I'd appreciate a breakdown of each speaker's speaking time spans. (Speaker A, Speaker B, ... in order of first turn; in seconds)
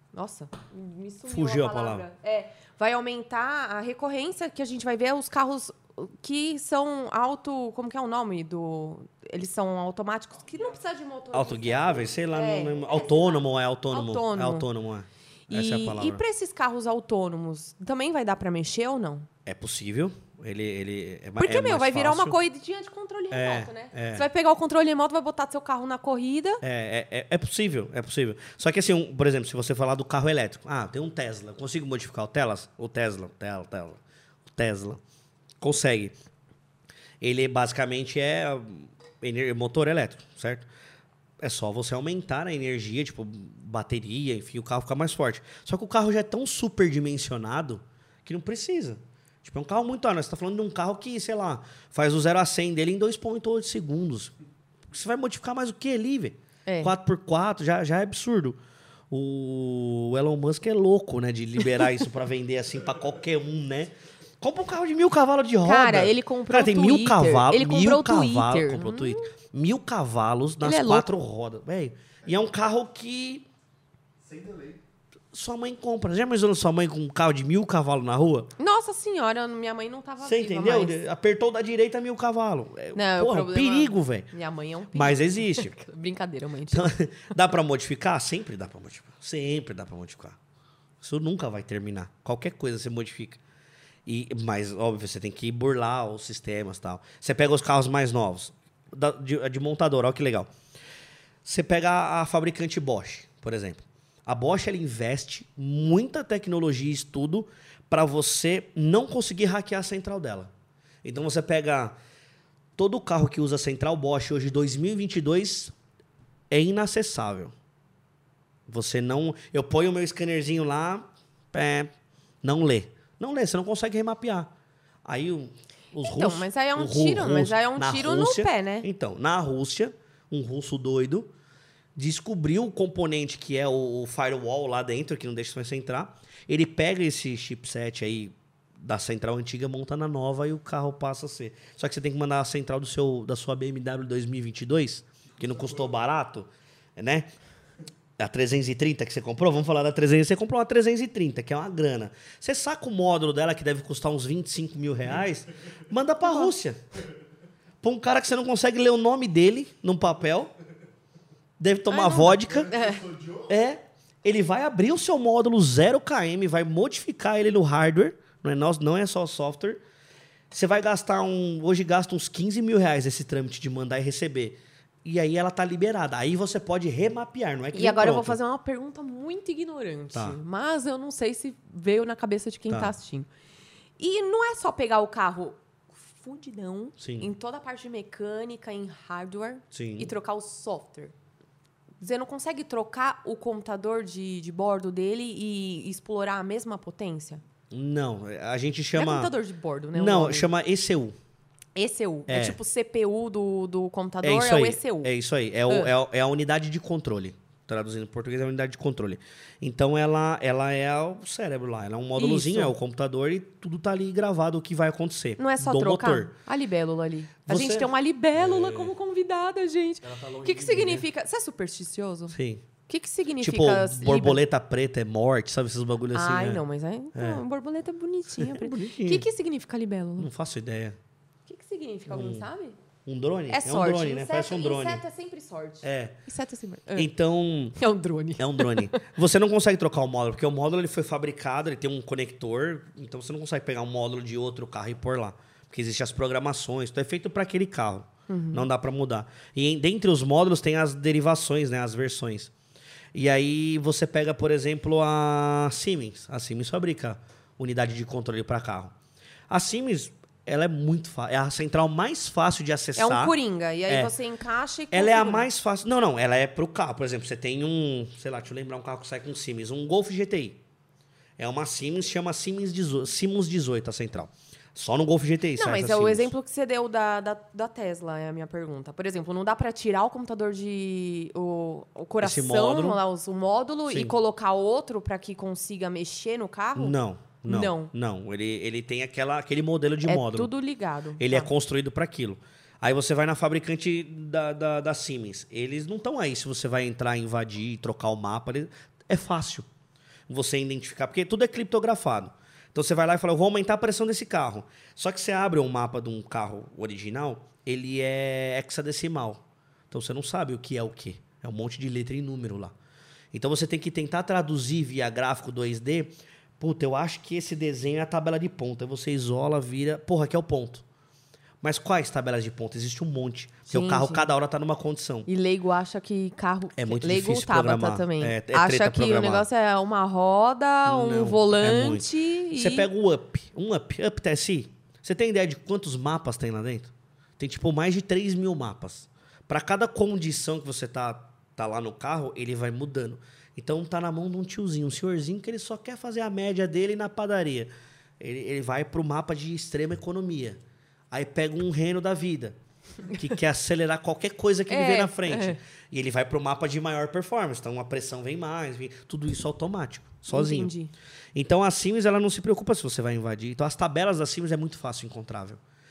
Speaker A: 0.1-14.7, 15.5-19.3, 21.4-26.6, 56.6-56.9, 65.6-69.3, 70.6-71.1, 78.6-81.0, 82.9-86.9, 126.0-128.9, 156.2-156.5, 161.9-163.0, 177.7-183.3, 184.0-191.1, 192.0-197.4, 198.9-200.5, 201.8-205.1, 212.2-212.7, 215.4-222.3, 222.9-224.4, 226.1-230.3, 231.5-232.8, 233.5-237.1, 237.8-239.1, 248.3-248.7, 262.9-265.5, 275.6-287.9, 290.0-291.5, 323.7-324.3, 325.3-332.9, 354.7-355.6, 360.3-360.9
Speaker B: 1.3-2.0, 11.3-16.2, 19.4-22.4, 23.3-24.2, 26.6-35.0, 35.6-36.1, 37.2-40.7, 41.4-54.3, 54.9-58.6, 59.1-73.5, 75.3-78.5, 80.2-84.3, 84.9-85.7, 86.7-90.4, 91.0-93.4, 94.0-100.5, 101.4-110.5, 111.0-112.0, 112.8-115.7, 116.5-117.5, 118.7-121.9, 122.4-124.5, 125.0-131.3, 131.9-147.3, 148.2-156.8, 157.8-160.5, 161.6-162.7, 163.5-169.8, 170.5-178.4, 180.1-180.4, 187.0-187.3, 189.7-190.1, 197.7-199.3, 199.9-201.2, 202.3-202.6, 204.2-216.3, 217.4-218.9, 220.0-221.1, 222.3-222.7, 223.4-226.6, 227.1-227.4, 228.4-229.2, 230.2-231.0, 232.1-232.4, 233.1-235.0, 235.8-236.2, 236.9-237.8, 238.4-252.5, 253.1-258.9, 259.5-263.4, 263.9-264.1, 264.9-270.6, 271.4-276.3, 282.2-283.0, 283.9-284.1, 286.8-290.5, 291.2-299.7, 300.3-312.7, 313.3-320.8, 321.6-325.3, 326.8-329.5, 330.8-350.6, 351.1-360.7, 361.3-365.6
Speaker C: 74.2-74.8, 145.4-145.9, 162.5-163.5